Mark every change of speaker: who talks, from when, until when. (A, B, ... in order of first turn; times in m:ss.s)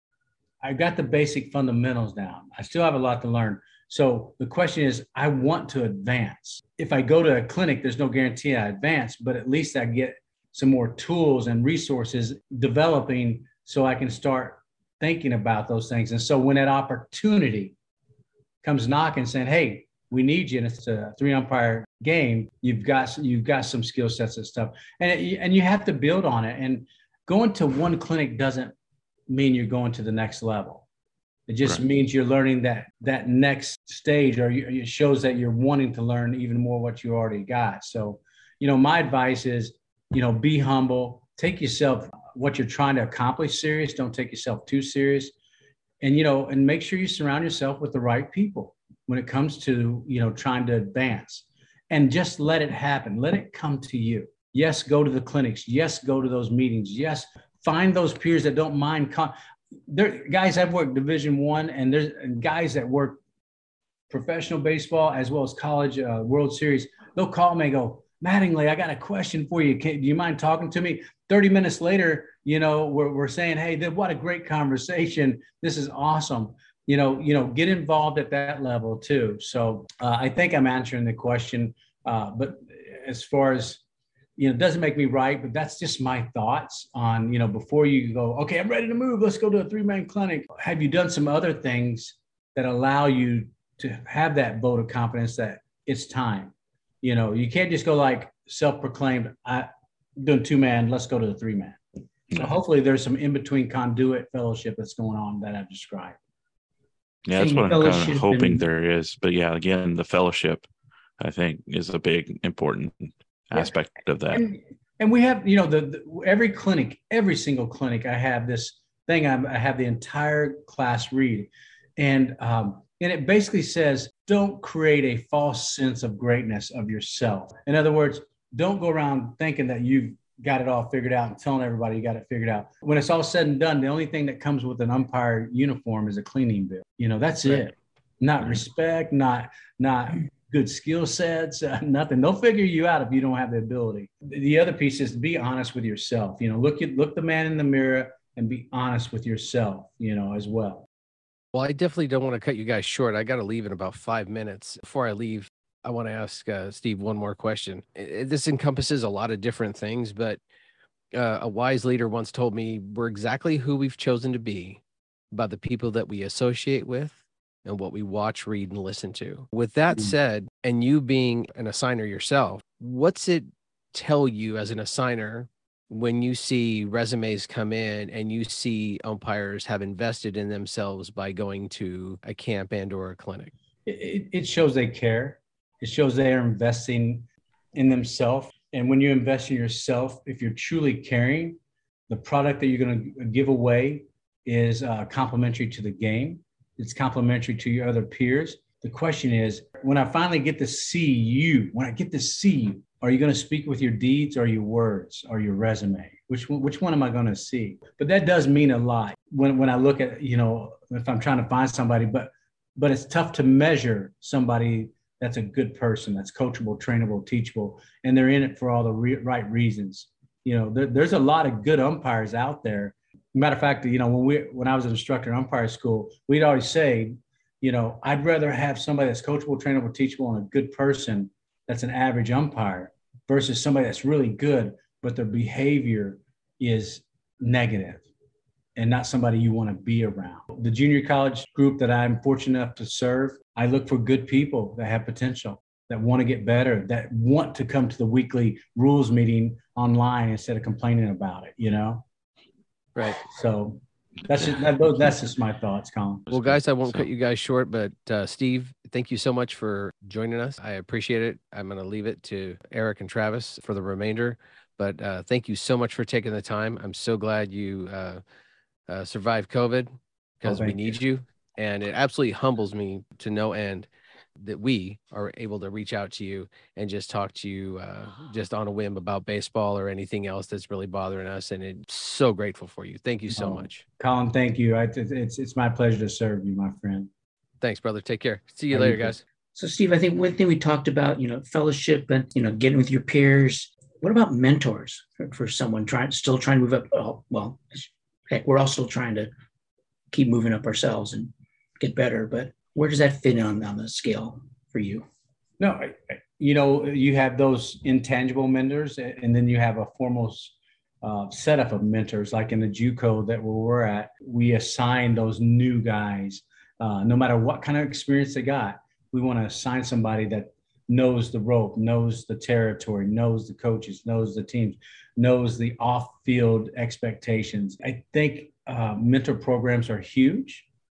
0:00.6-0:17.7 A
0:18.6-0:28.7 A
0:29.3-0:30.8 A
0:31.5-0:45.3 A
0:46.0-0:59.3 A
0:59.9-1:03.2 A
1:04.1-1:23.8 A
1:24.4-1:41.8 A
1:42.3-1:46.2 A
1:47.2-1:50.7 B
1:47.3-1:48.6 C
1:51.2-1:54.4 B
1:54.3-2:30.9 A
2:31.5-2:40.4 D
2:41.1-2:44.8 D
2:45.3-3:03.5 D
3:03.8-3:11.6 A
3:12.1-3:58.0 A
3:58.8-4:12.0 A
4:13.2-4:16.6 A
4:16.3-4:28.2 D
4:28.9-4:43.8 D
4:30.4-4:31.0 A
4:43.3-4:47.1 A
4:47.6-4:49.2 D
4:48.7-4:49.1 A
4:49.6-4:59.3 C
5:00.1-5:05.0 C
5:05.6-5:30.7 A